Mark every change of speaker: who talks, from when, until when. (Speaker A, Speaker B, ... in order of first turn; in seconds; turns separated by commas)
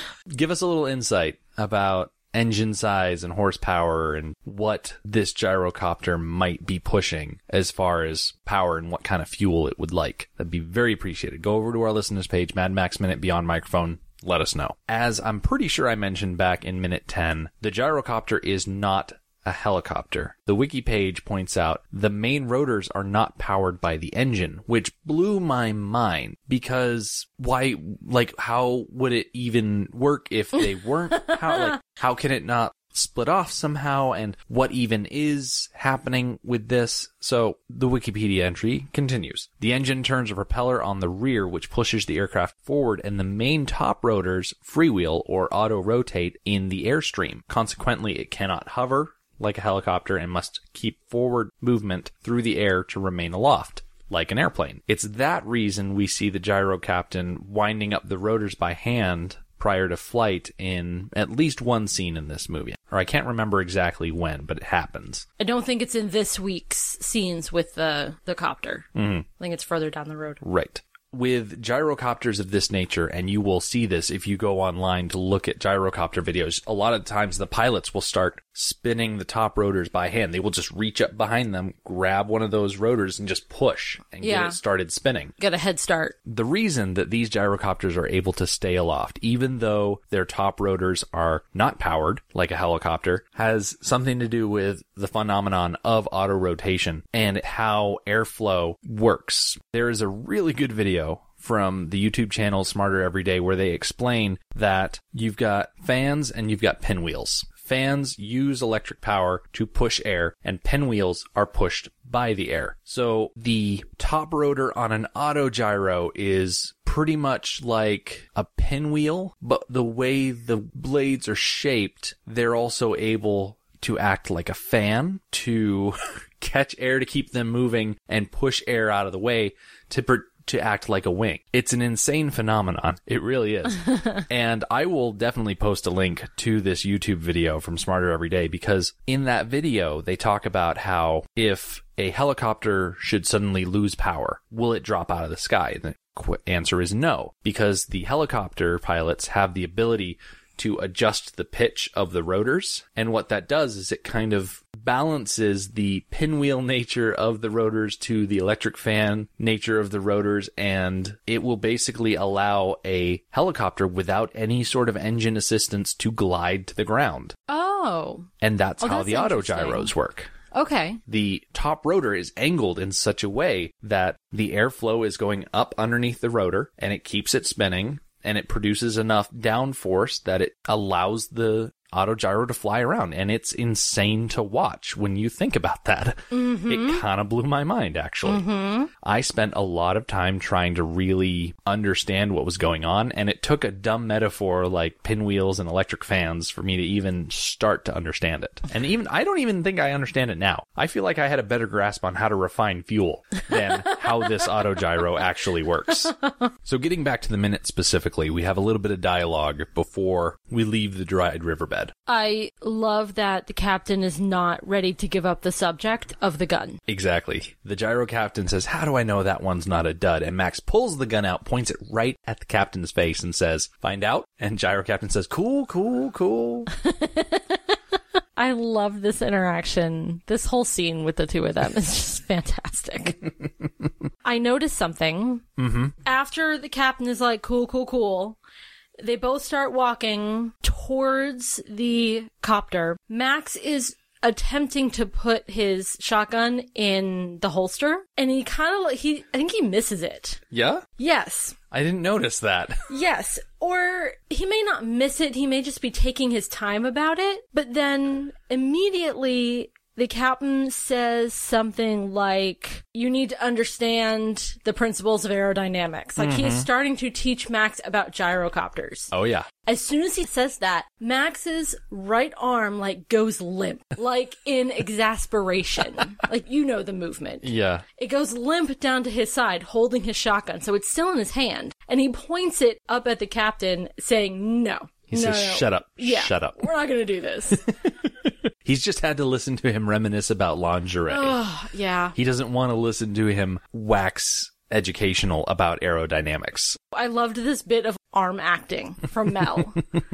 Speaker A: 0.3-65.2, Speaker B: 65.4-70.4, Speaker A: 68.9-69.3, Speaker A: 70.4-85.3, Speaker B: 84.2-84.6, Speaker B: 85.4-86.2, Speaker A: 86.2-167.3, Speaker B: 167.5-169.9, Speaker A: 168.4-170.3, Speaker B: 170.5-171.0, Speaker A: 171.1-188.4, Speaker B: 186.3-187.0, Speaker B: 188.2-188.9, Speaker A: 189.0-211.9, Speaker B: 212.1-216.8, Speaker A: 216.9-226.7, Speaker B: 226.7-227.8, Speaker B: 228.3-233.3, Speaker B: 234.2-235.4, Speaker A: 235.6-235.9, Speaker B: 236.0-238.4, Speaker B: 239.0-250.4, Speaker A: 250.5-250.8, Speaker B: 251.0-251.6, Speaker A: 251.7-252.8, Speaker B: 252.9-269.1, Speaker A: 266.2-266.7, Speaker A: 269.1-269.5, Speaker B: 269.6-287.6, Speaker A: 277.4-277.8, Speaker A: 285.1-286.7, Speaker A: 287.5-291.4, Speaker B: 291.1-292.1, Speaker A: 292.1-296.8, Speaker B: 296.9-299.9